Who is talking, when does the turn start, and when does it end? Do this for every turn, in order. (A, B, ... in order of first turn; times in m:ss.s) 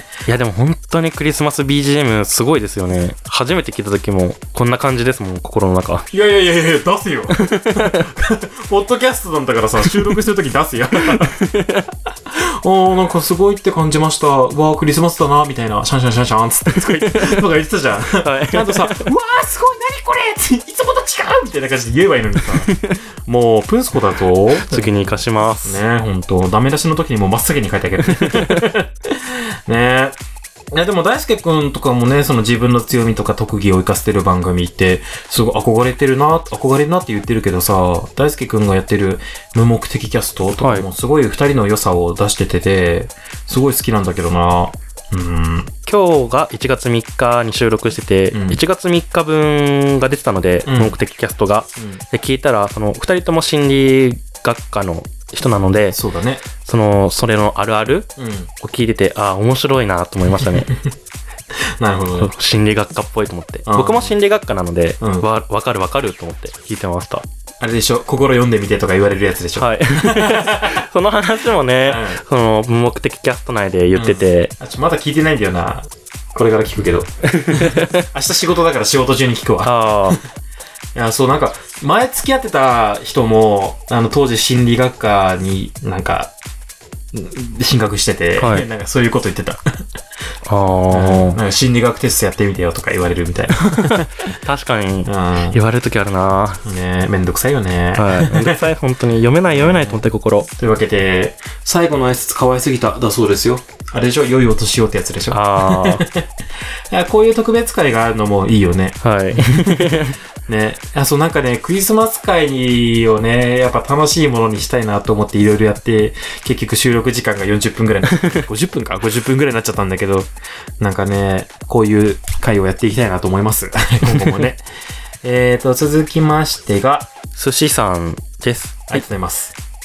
0:00.3-0:06.1 A
0:06.1-0:11.4 B
0:07.3-0:08.1 A
0:09.9-0:10.2 A
0:11.1-0:11.9 A
0:12.3-0:30.2 B
0:16.7-0:17.4 A
0:18.1-0:19.1 A
0:22.7-0:23.0 A
0:24.5-0:25.8 A
0:28.1-0:28.6 A
0:30.7-0:45.7 B
0:40.6-0:40.9 A
0:45.9-0:56.0 A
0:48.3-0:48.6 B
0:50.6-0:51.0 B
0:51.8-0:52.0 B
0:55.9-0:56.4 B
0:56.6-1:00.7 A
0:58.2-0:58.5 B
1:00.4-1:00.9 B
1:01.8-1:02.3 B
1:02.2-1:07.3 A
1:03.7-1:04.2 B
1:05.0-1:05.3 B
1:07.6-1:10.8 B
1:09.6-1:14.5 A
1:11.8-1:12.2 B
1:14.0-1:20.2 B
1:17.3-1:18.1 A
1:19.6-1:20.2 A
1:21.0-1:26.3 B
1:27.1-1:29.6 B
1:28.4-1:28.7 A
1:30.5-1:31.4 A
1:30.9-1:34.1 B
1:33.7-1:36.6 A
1:35.0-1:35.6 B
1:36.6-1:38.6 B
1:38.0-1:40.5 A
1:39.5-1:40.0 B
1:40.6-1:46.3 B
1:45.3-1:46.1 A
1:46.9-2:04.6 B
1:49.0-1:50.2 A
1:58.2-1:58.4 A
2:04.0-2:04.4 A
2:05.2-2:07.1 B
2:07.4-2:09.0 A
2:08.9-2:09.6 B